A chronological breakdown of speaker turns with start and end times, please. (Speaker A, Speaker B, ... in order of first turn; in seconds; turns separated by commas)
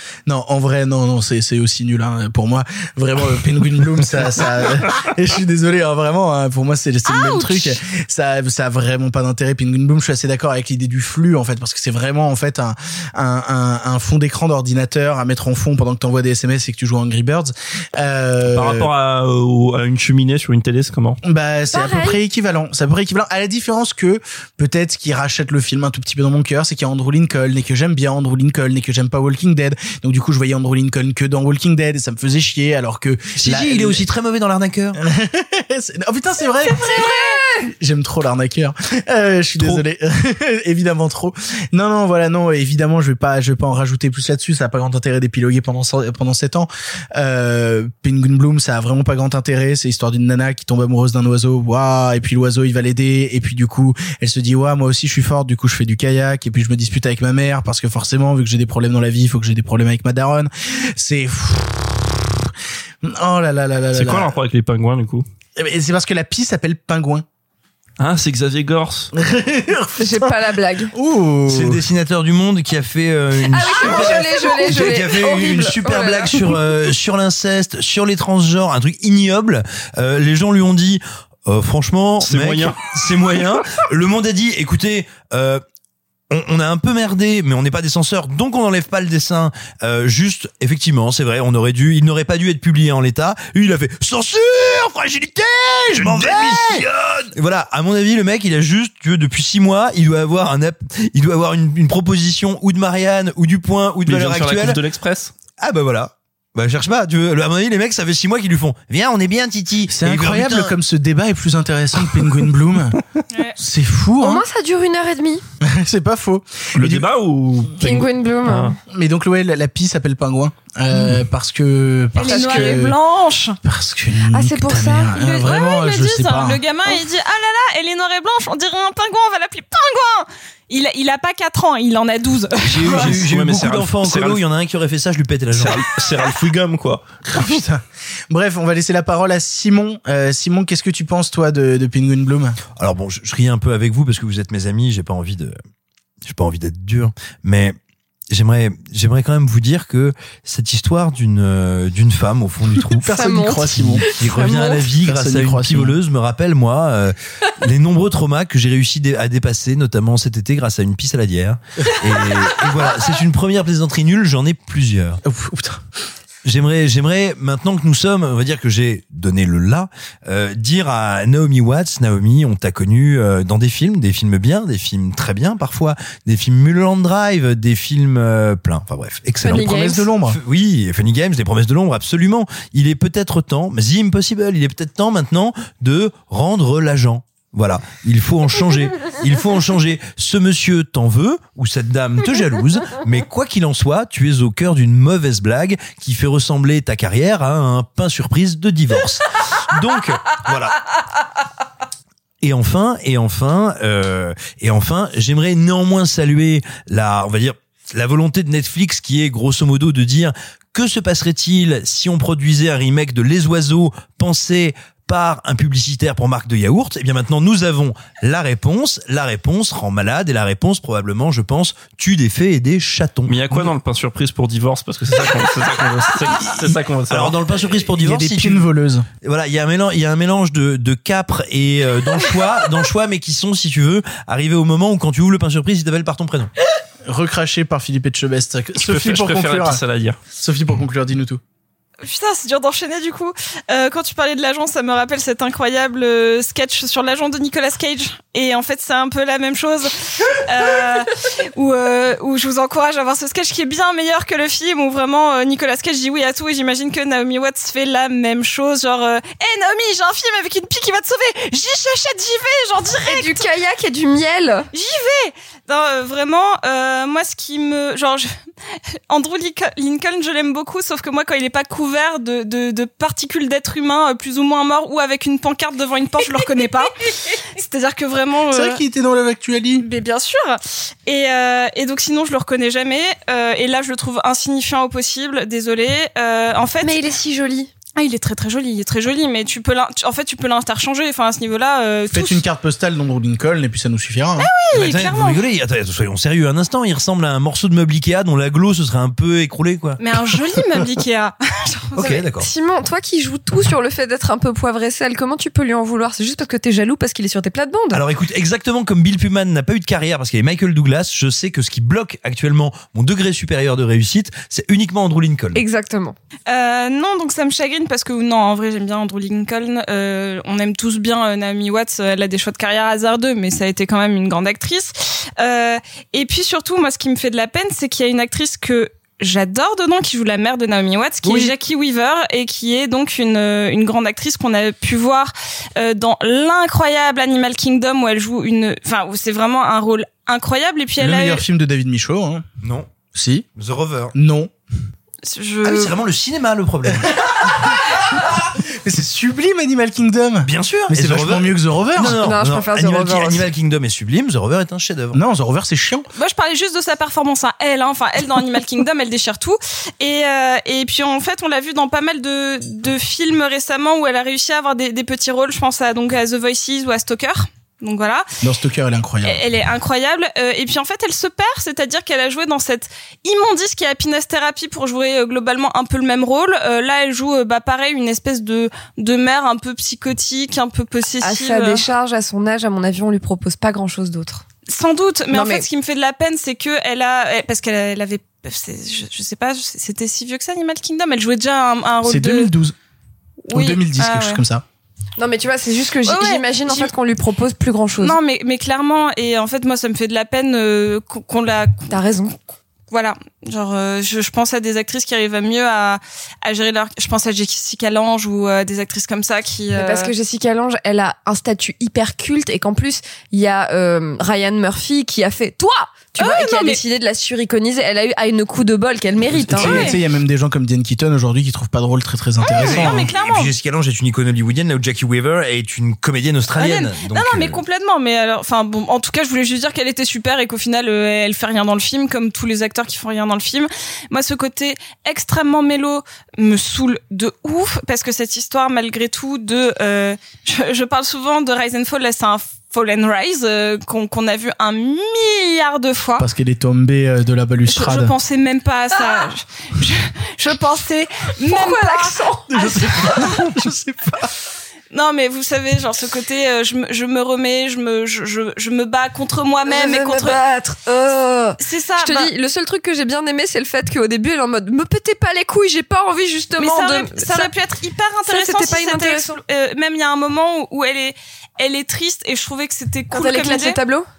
Speaker A: 0.3-18.9, Speaker B: 7.1-7.7, Speaker C: 18.4-21.2, Speaker A: 21.2-34.0, Speaker D: 21.7-22.2, Speaker E: 33.4-35.0, Speaker A: 35.0-62.5, Speaker D: 36.7-37.6, Speaker A: 63.0-64.4, Speaker C: 63.9-65.2, Speaker A: 65.6-67.2, Speaker C: 68.0-69.1, Speaker A: 69.1-70.4, Speaker D: 70.0-70.9, Speaker A: 70.9-71.8, Speaker E: 71.5-85.6, Speaker D: 73.5-76.5, Speaker A: 73.8-75.0, Speaker C: 82.2-83.4, Speaker E: 86.3-104.8, Speaker A: 95.9-96.9, Speaker C: 104.1-105.3, Speaker E: 105.6-110.8, Speaker A: 109.9-113.0, Speaker A: 113.6-114.5, Speaker D: 114.2-115.4, Speaker A: 115.6-117.1, Speaker C: 116.8-118.8, Speaker D: 117.8-118.7, Speaker A: 118.9-123.0, Speaker B: 122.2-123.6, Speaker D: 122.2-122.9, Speaker A: 123.6-126.6, Speaker D: 124.3-125.1, Speaker B: 125.1-133.0, Speaker E: 132.7-135.9, Speaker C: 132.8-134.4, Speaker C: 135.6-137.0, Speaker A: 137.3-142.6, Speaker E: 142.8-145.6, Speaker E: 146.2-147.8, Speaker E: 148.3-165.2, Speaker A: 152.8-156.0, Speaker D: 153.1-154.7, Speaker A: 165.2-165.8, Speaker E: 166.4-200.8, Speaker A: 179.4-180.4, Speaker D: 179.4-180.1, Speaker E: 202.4-223.7, Speaker C: 223.3-227.4, Speaker A: 226.4-226.7, Speaker E: 227.1-228.7, Speaker A: 227.9-229.1, Speaker E: 229.2-236.5, Speaker A: 237.1-239.8, Speaker C: 238.8-240.2, Speaker A: 240.4-241.4, Speaker B: 242.0-263.5, Speaker D: 263.1-264.7, Speaker B: 264.7-268.3, Speaker B: 269.1-278.8, Speaker A: 278.5-279.9, Speaker B: 279.8-287.0, Speaker D: 286.8-287.7, Speaker B: 288.0-292.4, Speaker A: 292.1-294.5, Speaker B: 294.4-295.4, Speaker E: 294.7-300.8, Speaker B: 300.0-302.2, Speaker E: 301.9-302.5, Speaker D: 302.4-308.0, Speaker E: 307.9-315.6, Speaker D: 315.6-316.2, Speaker B: 316.5-341.4, Speaker A: 341.0-342.4, Speaker E: 342.6-342.9, Speaker A: 343.1-343.4, Speaker E: 343.6-344.1, Speaker A: 344.1-344.5, Speaker B: 345.2-345.9, Speaker E: 345.6-347.8, Speaker A: 346.9-347.8, Speaker A: 348.7-352.2, Speaker E: 350.4-355.2, Speaker D: 352.2-353.5, Speaker A: 355.1-356.1, Speaker B: 356.2-368.3, Speaker A: 368.4-369.4, Speaker B: 369.2-381.8, Speaker D: 381.2-384.4, Speaker B: 384.7-392.5, Speaker D: 385.3-385.6, Speaker A: 392.0-392.7, Speaker B: 393.5-394.4, Speaker A: 393.5-394.6, Speaker D: 395.2-398.2, Speaker B: 396.1-396.9, Speaker B: 398.0-401.9, Speaker D: 401.9-402.4, Speaker B: 402.9-410.1, Speaker D: 409.7-420.0, Speaker B: 416.2-416.8, Speaker A: 419.4-423.0, Speaker B: 419.6-420.0, Speaker B: 422.4-423.5, Speaker E: 422.5-427.6, Speaker B: 426.6-446.2, Speaker A: 446.2-448.1, Speaker B: 447.7-453.4, Speaker D: 451.5-453.2, Speaker A: 452.5-454.3, Speaker B: 454.9-460.4, Speaker D: 459.7-467.5, Speaker B: 461.6-462.3, Speaker B: 466.6-473.8, Speaker D: 468.3-469.4, Speaker D: 473.1-474.1